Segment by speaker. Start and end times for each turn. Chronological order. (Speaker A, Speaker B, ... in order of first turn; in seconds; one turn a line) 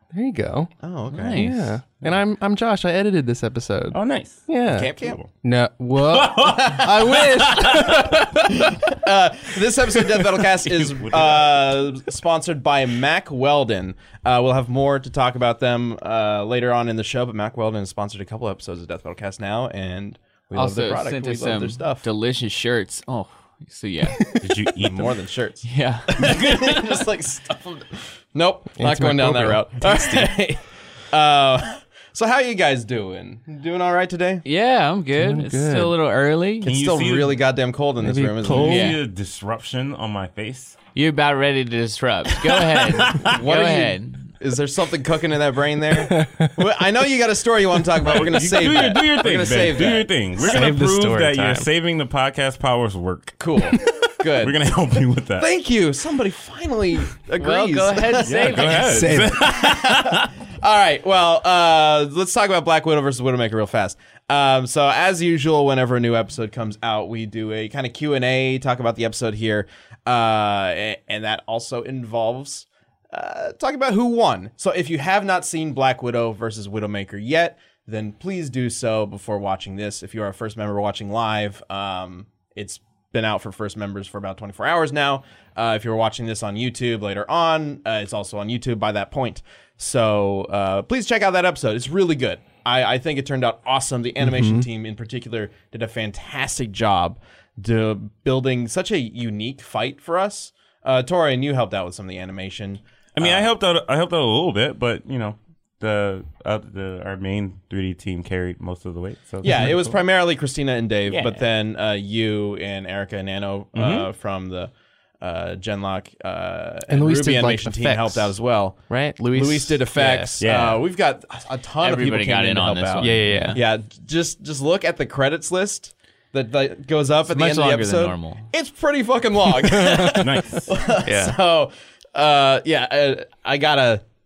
Speaker A: 0.1-0.7
Speaker B: 0.8-1.5
Speaker C: 1.1-1.7
Speaker A: 1.3-8.7
Speaker D: 3.9-4.5
Speaker B: 4.7-5.2
Speaker D: 5.0-5.2
Speaker D: 6.0-8.3
Speaker B: 6.5-7.0
Speaker B: 7.6-22.0
Speaker D: 10.5-11.5
Speaker C: 20.5-24.3
Speaker D: 24.4-25.2
Speaker B: 24.8-34.4
Speaker C: 25.6-26.3
Speaker D: 26.2-26.9
Speaker A: 28.8-30.3
Speaker C: 34.4-36.7
Speaker A: 35.2-35.9
Speaker B: 36.6-38.9
Speaker D: 36.6-37.4
Speaker A: 38.0-38.9
Speaker D: 38.4-40.8
Speaker C: 38.5-39.0
Speaker C: 40.9-44.3
Speaker D: 42.4-43.3
Speaker B: 43.2-50.6
Speaker A: 46.1-46.5
Speaker D: 48.0-55.5
Speaker A: 50.4-51.7
Speaker B: 53.4-54.5
Speaker B: 55.4-58.8
Speaker C: 57.4-59.1
Speaker D: 58.2-60.3
Speaker A: 58.8-59.5
Speaker B: 59.3-103.5
Speaker A: 94.2-94.7
Speaker D: 103.2-110.0
Speaker B: 109.4-118.8
Speaker D: 111.1-111.4
Speaker D: 113.7-114.1
Speaker A: 116.9-118.3
Speaker A: 118.9-120.3
Speaker B: 119.3-134.0
Speaker D: 120.4-120.8
Speaker C: 121.8-123.6
Speaker A: 123.0-123.5
Speaker C: 127.3-128.4
Speaker D: 130.1-130.7
Speaker A: 131.0-131.3